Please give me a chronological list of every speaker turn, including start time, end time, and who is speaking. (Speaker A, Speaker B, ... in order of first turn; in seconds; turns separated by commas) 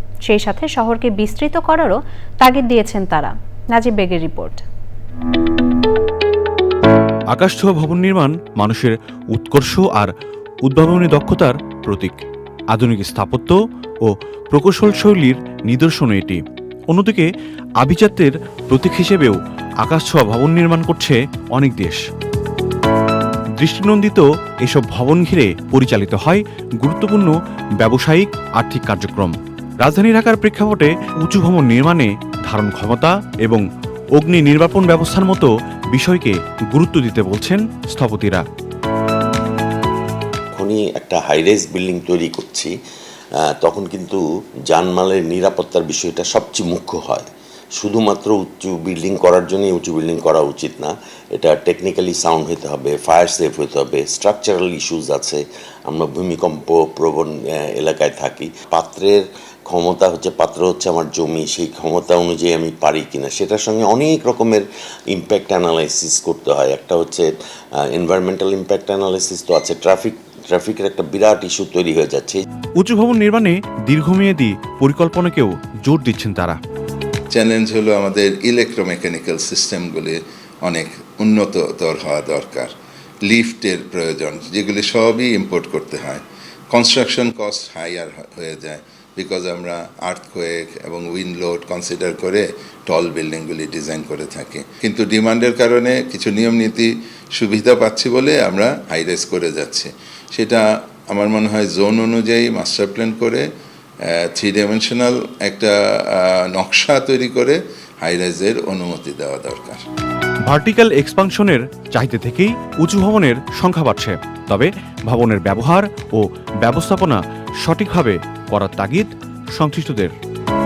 Speaker A: 0.3-4.6, Speaker B: 7.3-10.1, Speaker B: 10.7-12.2, Speaker B: 12.7-22.0, Speaker B: 23.6-33.6, Speaker B: 34.2-38.4, Speaker C: 40.5-42.7, Speaker C: 43.4-47.3, Speaker C: 47.8-67.3, Speaker C: 67.8-72.4, Speaker B: 72.8-76.6, Speaker D: 77.3-82.7, Speaker D: 83.3-103.5, Speaker D: 104.2-109.8, Speaker B: 110.5-120.1